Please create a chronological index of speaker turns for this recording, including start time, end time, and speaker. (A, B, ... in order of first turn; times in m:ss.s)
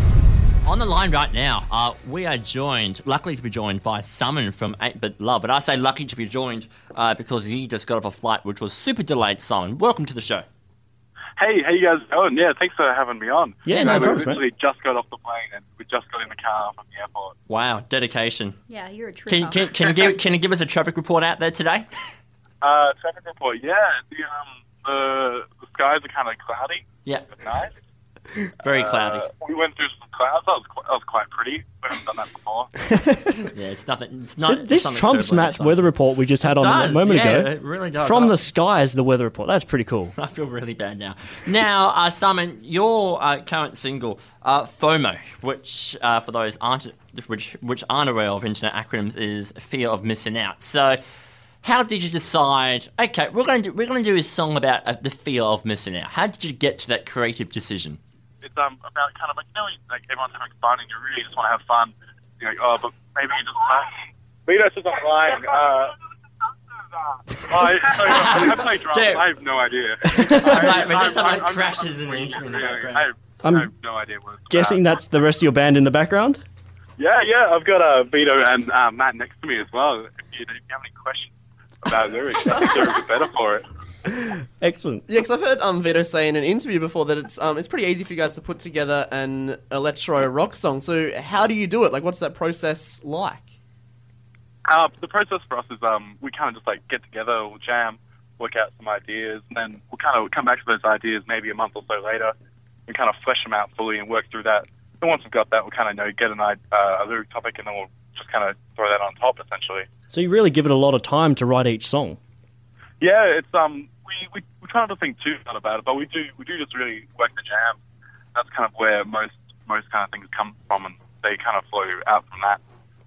0:00.6-0:10.4 A
0:11.4-0:17.3 B
0:13.6-0:14.4 C
0:13.7-0:14.1 A
0:17.5-0:18.6 A
0:18.7-0:20.2 D
0:19.2-0:21.9 A
0:22.6-0:26.8 B
0:27.4-0:27.7 B
0:28.6-0:29.3 A
0:28.7-0:32.7 B
0:33.0-0:33.3 C
0:33.5-0:35.9 A
0:34.4-0:40.1 C
0:36.4-0:38.4 A
0:40.2-0:51.0 A
0:51.6-0:58.0 A
0:58.4-1:03.9 B
1:04.5-1:05.9 B
1:07.5-1:14.8 B
1:08.0-1:09.2 A
1:10.2-1:10.5 C
1:10.2-1:13.0 A
1:13.4-1:13.7 C
1:14.5-1:16.4 C
1:17.0-1:23.6 B
1:22.5-1:22.9 D
1:24.1-1:25.0 C
1:25.1-1:33.5 E
1:34.7-1:42.3 B
1:42.9-1:49.9 B
1:50.1-1:52.2 C
1:53.0-1:57.8 B
1:58.3-2:02.6 B